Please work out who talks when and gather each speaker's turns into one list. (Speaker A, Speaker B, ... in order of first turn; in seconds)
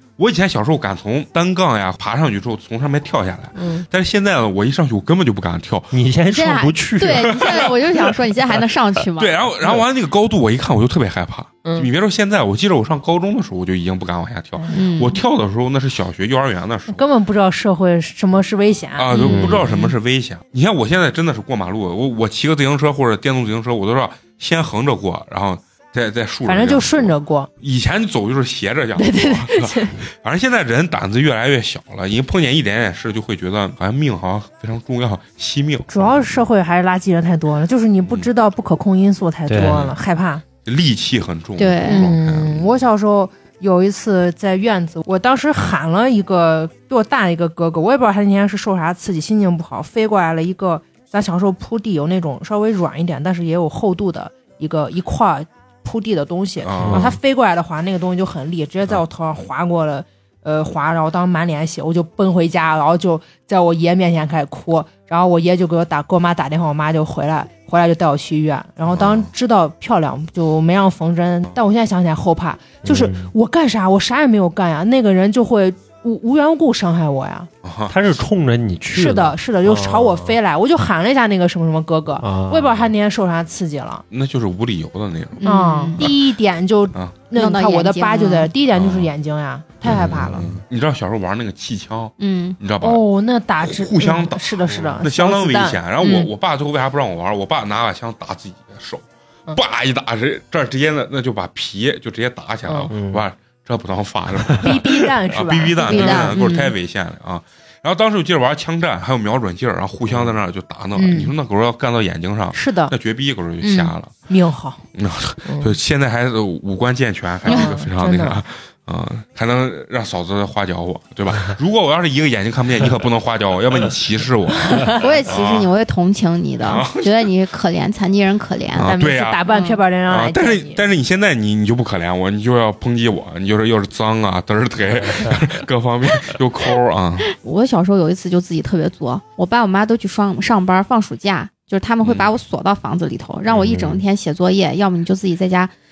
Speaker A: 0.2-5.9, 7.1-7.7, 9.2-17.0, 19.0-36.4, 39.6-40.0, 40.6-42.7, 56.6-57.2, 68.9-69.3, 77.6-78.0, 84.1-85.5, 88.7-89.1, 89.8-93.0, 93.6-114.1, 114.9-125.7, 126.6-127.3, 128.8-129.4, 130.1-137.3, 142.0-142.3
Speaker B: 5.9-7.9, 19.2-19.7, 39.5-39.9, 56.8-57.1, 72.8-73.3, 77.9-80.3, 82.2-82.9, 94.7-95.0, 102.9-103.2, 104.5-104.8, 110.1-110.4, 143.6-144.0
Speaker C: 6.3-9.3, 14.7-15.2, 19.1-19.9, 41.6-42.1, 85.4-86.1, 87.3-88.5, 92.2-92.6, 105.8-106.7, 124.8-128.9, 129.5-129.8, 137.3-145.7
Speaker D: 16.9-19.1, 26.4-27.5, 29.0-30.0, 35.9-40.4, 41.8-77.5, 78.9-84.0, 85.4-90.5, 92.8-96.3, 102.7-102.9, 104.6-106.4, 111.0-111.3, 112.5-112.9, 113.6-114.8, 115.4-115.7, 117.5-118.4, 128.8-130.8